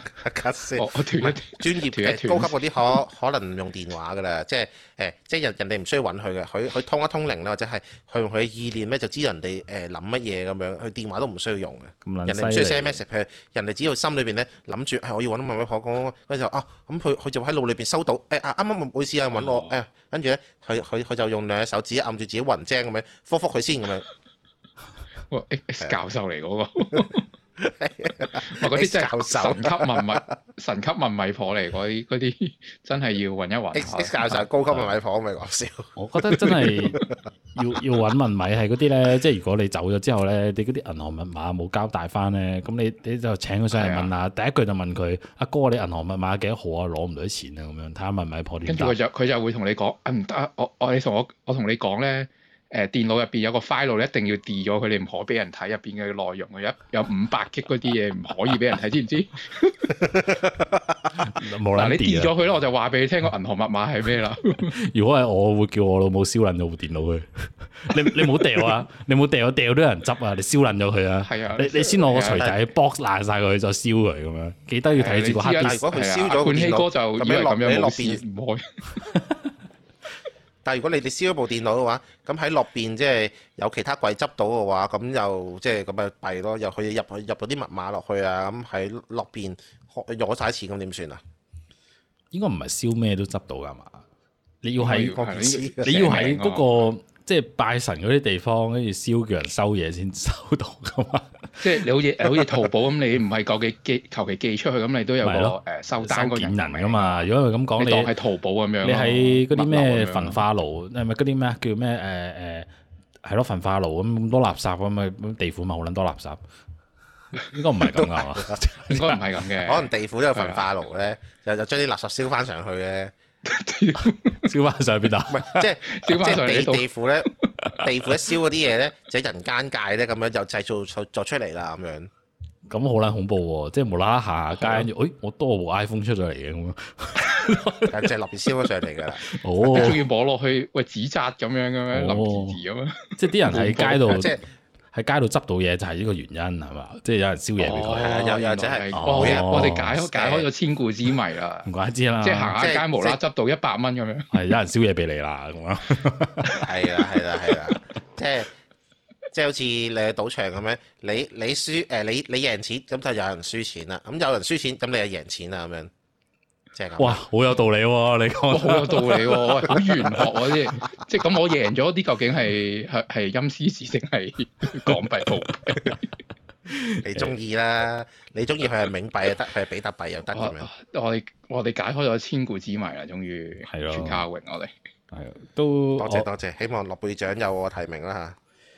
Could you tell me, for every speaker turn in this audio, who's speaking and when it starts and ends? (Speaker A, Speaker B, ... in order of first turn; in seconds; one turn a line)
Speaker A: 0.2-24.0
Speaker B: 0.8-2.6
Speaker C: 12.0-13.0
Speaker B: 19.4-19.7
Speaker B: 25.3-27.3
Speaker A: 27.6-30.2
Speaker B: 28.4-34.5
Speaker A: 33.7-37.0
Speaker C: 35.9-37.0
Speaker C: 37.5-48.9
Speaker B: 43.7-44.1
Speaker B: 48.7-59.9
Speaker C: 61.1-62.3
Speaker B: 61.7-64.7
Speaker C: 64.8-75.8
Speaker B: 71.2-72.5
Speaker B: 74.9-78.7
Speaker A: 75.6-78.2
Speaker A: 80.6-91.2
Speaker C: 92.3-94.0
Speaker C: 94.6-95.2
Speaker B: 94.8-96.8
Speaker A: 95.0-96.3
Speaker C: 95.8-101.7
Speaker B: 101.6-110.4
Speaker C: 102.2-102.6
Speaker C: 105.2-108.1
Speaker C: 108.8-112.7
Speaker C: 113.2-116.4
Speaker C: 117.4-119.2
Speaker B: 118.9-120.7
Speaker A: 119.6-123.1
Speaker B: 123.4-124.5
Speaker C: 124.4-125.7
Speaker A: 125.3-132.1
Speaker B: 125.8-126.8
Speaker C: 132.7-138.1
Speaker B: 134.6-134.9
Speaker A: 137.9-140.0
Speaker C: 139.2-140.0
Speaker B: 139.7-144.2
Speaker C: 141.9-142.6
Speaker C: 143.2-144.3
Speaker A: 144.0-144.4
Speaker C: 144.9-148.1
Speaker B: 147.6-151.7
Speaker A: 147.9-150.5
Speaker C: 148.9-150.0
Speaker C: 151.7-152.5
Speaker B: 152.2-154.3
Speaker A: 152.6-153.2
Speaker C: 154.3-156.6
Speaker A: 156.6-158.5
Speaker A: 159.3-165.9
Speaker A: 166.7-167.2
Speaker C: 167.0-170.3
Speaker B: 168.5-176.0
Speaker C: 176.7-177.3
Speaker A: 177.0-180.7
Speaker B: 180.3-184.7
Speaker C: 183.7-184.2
Speaker C: 185.1-186.3
Speaker A: 186.0-188.4